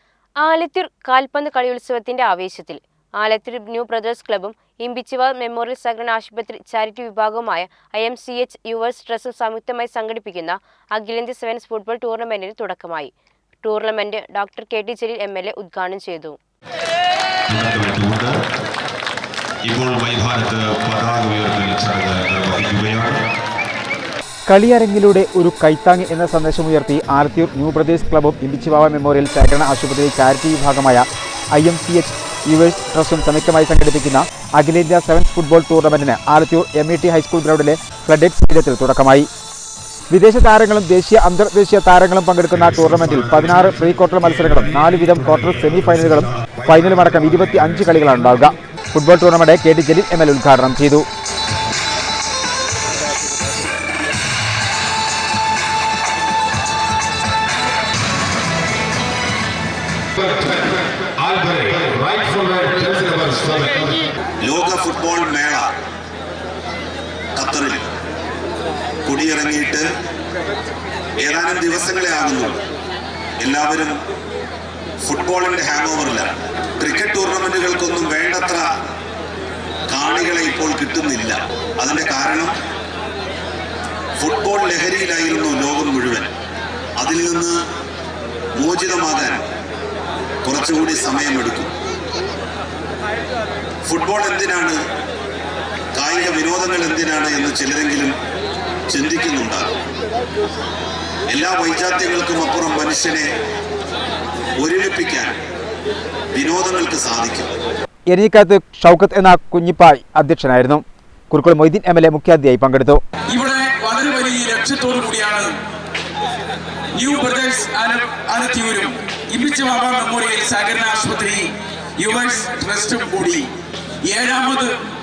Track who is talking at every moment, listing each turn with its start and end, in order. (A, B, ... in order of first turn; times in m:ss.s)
0:00.4-0:13.1 A
0:13.6-0:16.4 A
0:17.5-0:18.4 B
0:19.6-0:23.2 B
0:24.5-0:39.3 C
0:40.1-0:51.0 C
1:01.3-1:04.0 B
1:04.4-1:05.7 D
1:07.3-1:07.8 D
1:09.0-1:09.8 D
1:11.2-1:12.6 D
1:13.4-1:14.0 D
1:15.0-1:18.7 D
1:19.9-1:22.5 D
1:24.2-1:26.3 D
1:27.0-1:27.6 D
1:28.6-1:29.4 D
1:30.4-1:31.7 D
1:33.8-1:34.8 D
1:35.9-1:38.1 D
1:38.9-1:39.8 D
1:41.3-1:43.3 D
1:44.6-1:45.4 D
1:46.3-1:47.5 D
1:48.1-1:53.0 C
1:53.3-1:55.5 E
1:56.9-2:03.5 E
2:04.0-2:04.7 E